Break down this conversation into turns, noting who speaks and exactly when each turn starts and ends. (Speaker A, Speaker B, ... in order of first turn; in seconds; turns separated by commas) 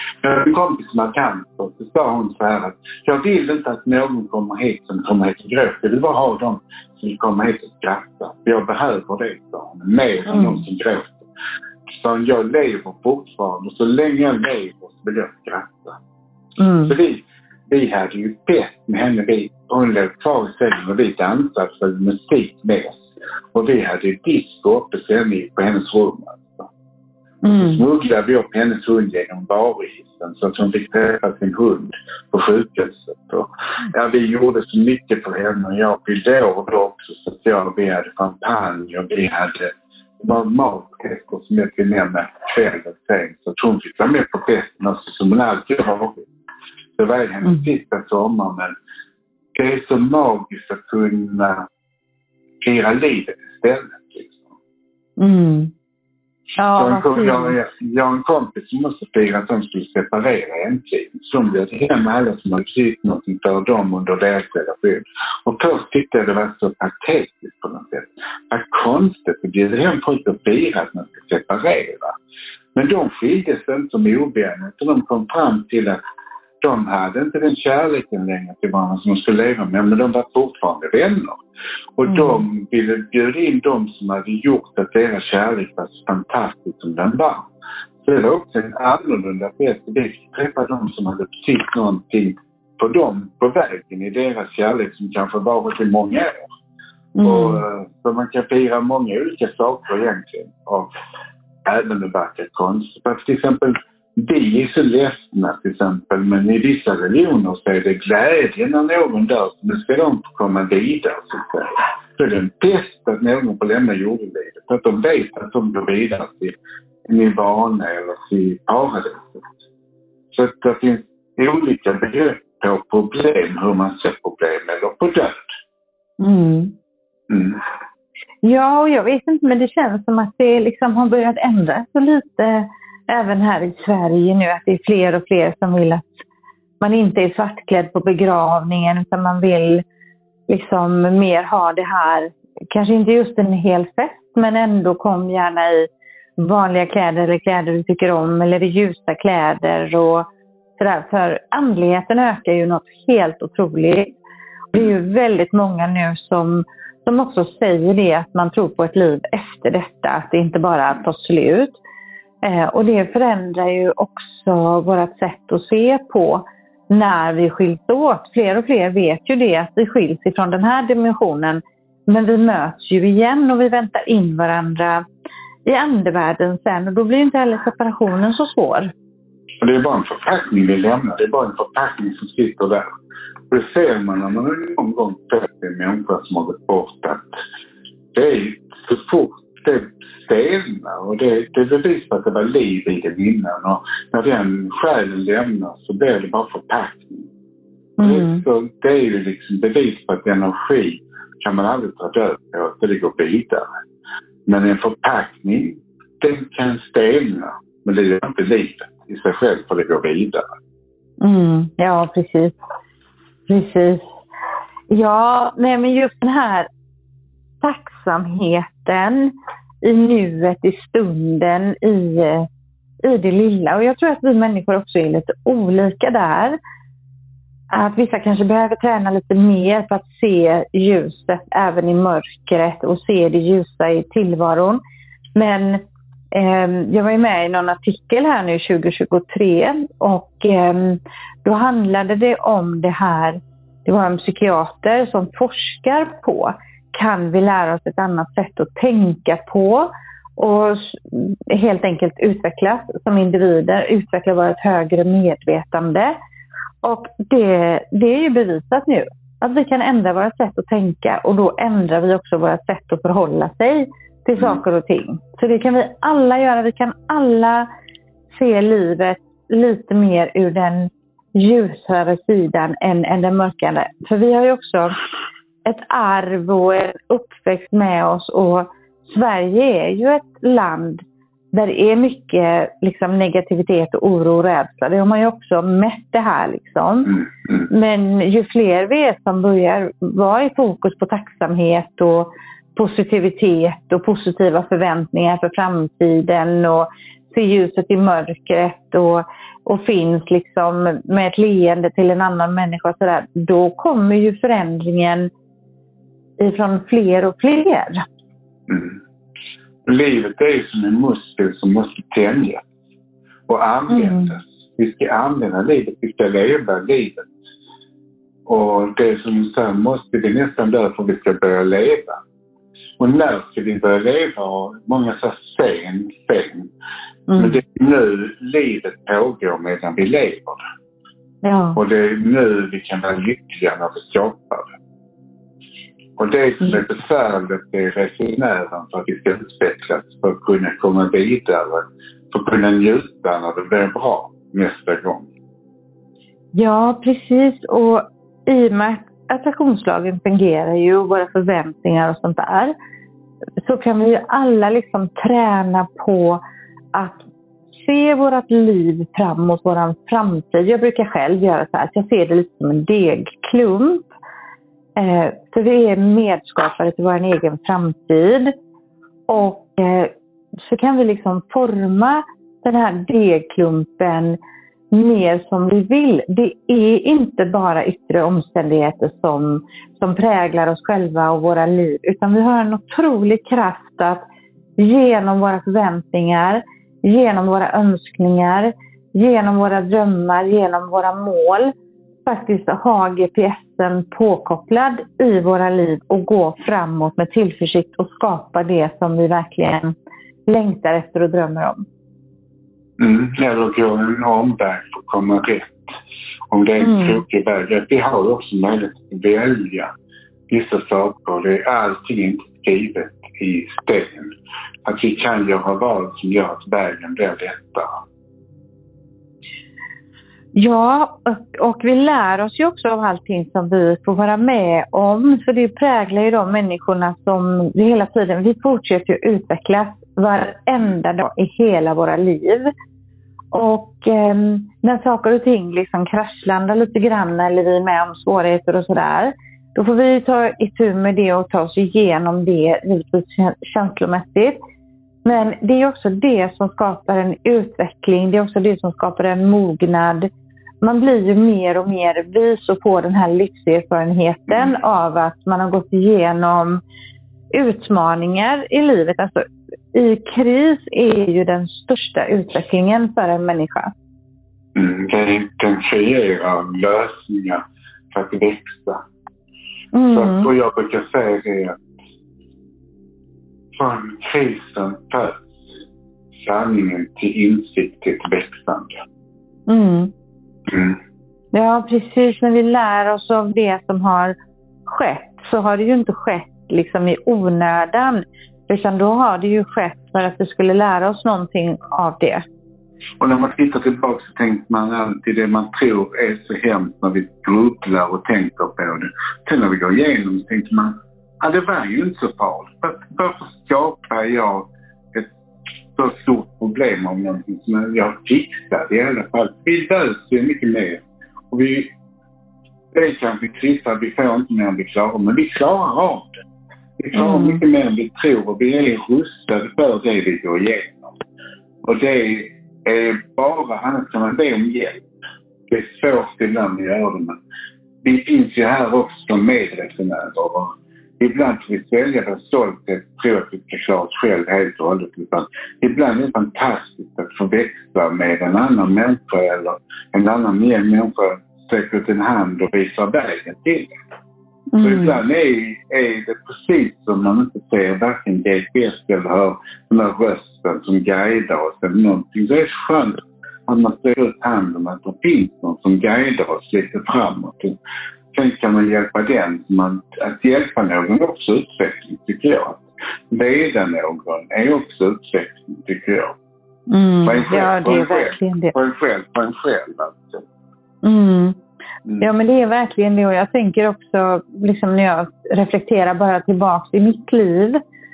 Speaker A: 0.2-11.3, Speaker B: 10.3-10.6, Speaker A: 11.9-16.0, Speaker B: 16.6-16.9, Speaker A: 16.8-26.7, Speaker B: 27.4-27.8, Speaker A: 27.6-46.2, Speaker A: 47.0-48.7, Speaker A: 49.5-51.7, Speaker A: 52.6-54.5, Speaker B: 55.2-55.7, Speaker B: 56.6-57.5, Speaker A: 56.7-72.1, Speaker A: 72.7-76.0, Speaker A: 76.6-81.4, Speaker A: 82.0-87.5, Speaker B: 82.1-82.4, Speaker A: 88.0-96.4, Speaker B: 97.2-97.6, Speaker A: 97.2-100.9, Speaker A: 101.7-116.5, Speaker A: 117.1-119.5, Speaker A: 120.3-125.5, Speaker B: 126.2-126.7, Speaker A: 127.3-127.6, Speaker B: 128.4-136.2, Speaker B: 136.8-139.8, Speaker B: 140.5-150.2, Speaker B: 150.8-154.1, Speaker B: 154.7-161.7, Speaker B: 162.4-175.0, Speaker B: 175.6-178.9, Speaker A: 179.6-182.9, Speaker A: 183.5-187.2, Speaker A: 188.1-197.3, Speaker B: 198.0-198.4, Speaker A: 198.0-203.7, Speaker A: 204.4-210.4, Speaker B: 211.2-212.5, Speaker B: 213.5-214.0, Speaker B: 214.9-216.7, Speaker B: 217.6-222.5, Speaker B: 223.0-226.6, Speaker B: 227.7-234.8, Speaker B: 235.3-256.1, Speaker B: 256.8-267.7, Speaker B: 268.3-275.0, Speaker B: 275.6-305.3, Speaker A: 287.2-287.7, Speaker B: 306.4-308.0, Speaker A: 308.7-309.0, Speaker A: 309.9-312.6, Speaker A: 313.5-317.4, Speaker B: 313.9-314.3, Speaker A: 318.5-322.2, Speaker A: 323.0-326.7, Speaker B: 327.3-327.6, Speaker A: 327.4-330.6, Speaker B: 331.4-331.8, Speaker A: 331.8-334.8, Speaker A: 336.2-345.3, Speaker B: 346.5-352.7, Speaker B: 353.6-356.4, Speaker B: 356.9-364.1, Speaker B: 364.9-368.5, Speaker B: 369.3-374.4, Speaker B: 374.9-384.2, Speaker B: 384.8-391.7, Speaker B: 392.2-399.9, Speaker B: 400.5-401.8, Speaker A: 403.0-405.9, Speaker A: 406.5-409.9, Speaker B: 406.8-407.2, Speaker A: 410.5-414.3, Speaker A: 414.8-418.0, Speaker B: 420.5-432.7, Speaker B: 433.5-444.6, Speaker B: 445.2-450.3, Speaker B: 450.8-456.8, Speaker B: 457.5-463.9, Speaker A: 464.7-469.0, Speaker B: 469.9-470.5, Speaker A: 470.1-471.8, Speaker A: 473.7-475.6, Speaker A: 476.4-479.0, Speaker B: 479.7-480.1, Speaker A: 480.7-481.0, Speaker B: 481.5-484.3, Speaker B: 484.9-492.4, Speaker A: 493.2-505.3, Speaker A: 505.9-511.9, Speaker A: 512.9-516.3, Speaker A: 517.0-521.1, Speaker B: 517.1-517.6, Speaker A: 521.8-525.0, Speaker A: 525.7-527.4, Speaker A: 528.0-543.9, Speaker B: 544.7-545.2, Speaker A: 544.8-557.7, Speaker A: 558.3-566.4, Speaker B: 566.9-568.7, Speaker A: 567.2-570.4, Speaker B: 571.0-571.6, Speaker B: 572.2-577.8